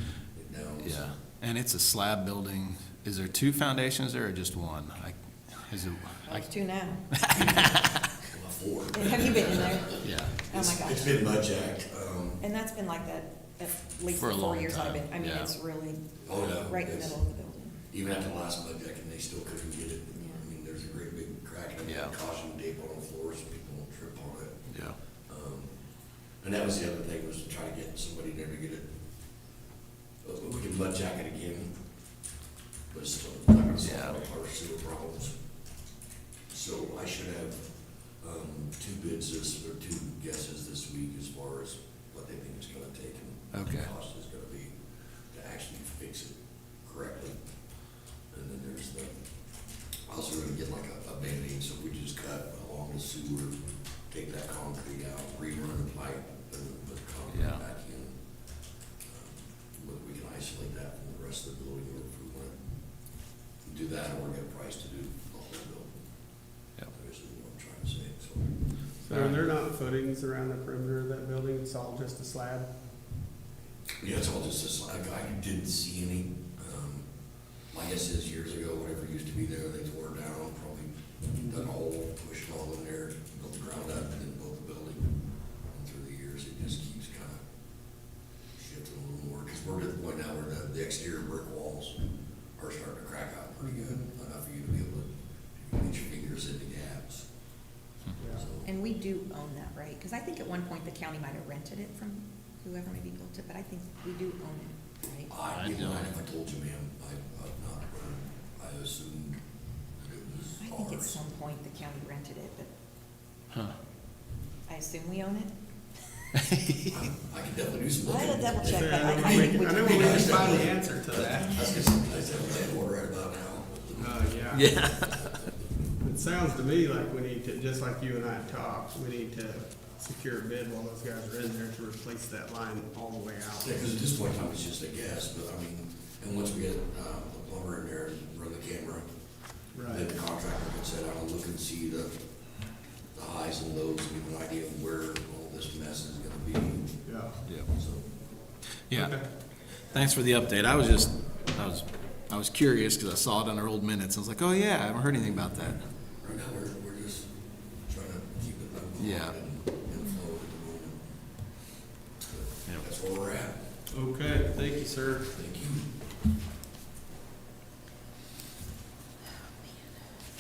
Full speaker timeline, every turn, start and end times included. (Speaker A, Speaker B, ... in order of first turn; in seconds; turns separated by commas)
Speaker A: 0.3-1.1, Speaker B: 0.8-6.5, Speaker C: 6.2-7.3, Speaker B: 7.1-8.0, Speaker A: 7.4-7.7, Speaker A: 8.2-12.4, Speaker C: 8.9-11.3, Speaker B: 9.8-10.3, Speaker C: 12.4-17.8, Speaker B: 14.2-15.5, Speaker A: 16.2-17.2, Speaker A: 17.9-24.6, Speaker C: 20.1-20.4, Speaker B: 21.8-22.1, Speaker B: 24.7-25.0, Speaker A: 25.3-25.7, Speaker A: 26.4-28.9, Speaker A: 30.2-31.7, Speaker A: 32.9-35.4, Speaker B: 33.8-34.2, Speaker A: 36.5-37.6, Speaker A: 38.2-44.7, Speaker B: 43.5-43.9, Speaker A: 45.3-47.4, Speaker A: 48.3-49.1, Speaker A: 50.1-53.5, Speaker A: 54.1-58.1, Speaker B: 57.3-57.6, Speaker A: 59.0-62.5, Speaker A: 63.6-66.0, Speaker A: 66.9-68.5, Speaker D: 69.0-72.7, Speaker B: 69.1-69.5, Speaker A: 74.0-77.0, Speaker A: 77.7-85.1, Speaker A: 85.7-87.4, Speaker A: 88.5-92.0, Speaker A: 92.6-97.3, Speaker D: 93.6-94.0, Speaker D: 98.2-98.5, Speaker A: 98.3-98.7, Speaker C: 98.6-105.3, Speaker A: 105.3-109.4, Speaker B: 105.5-106.1, Speaker A: 110.0-111.2, Speaker C: 110.6-112.7, Speaker C: 114.7-115.5, Speaker B: 116.4-116.9, Speaker A: 116.9-124.3, Speaker C: 118.0-120.6, Speaker D: 118.6-121.7, Speaker D: 124.0-124.7, Speaker B: 124.5-125.3, Speaker A: 125.1-125.5, Speaker D: 126.0-133.9, Speaker A: 133.5-139.1, Speaker D: 139.7-140.1, Speaker A: 139.9-142.1, Speaker A: 143.1-146.9, Speaker D: 147.1-147.3, Speaker A: 147.7-148.1, Speaker B: 148.9-149.2, Speaker D: 148.9-149.2, Speaker B: 149.9-155.8, Speaker A: 156.2-157.3, Speaker A: 157.8-161.1, Speaker B: 159.0-159.4, Speaker A: 162.2-163.6, Speaker D: 163.9-165.3, Speaker A: 165.3-165.9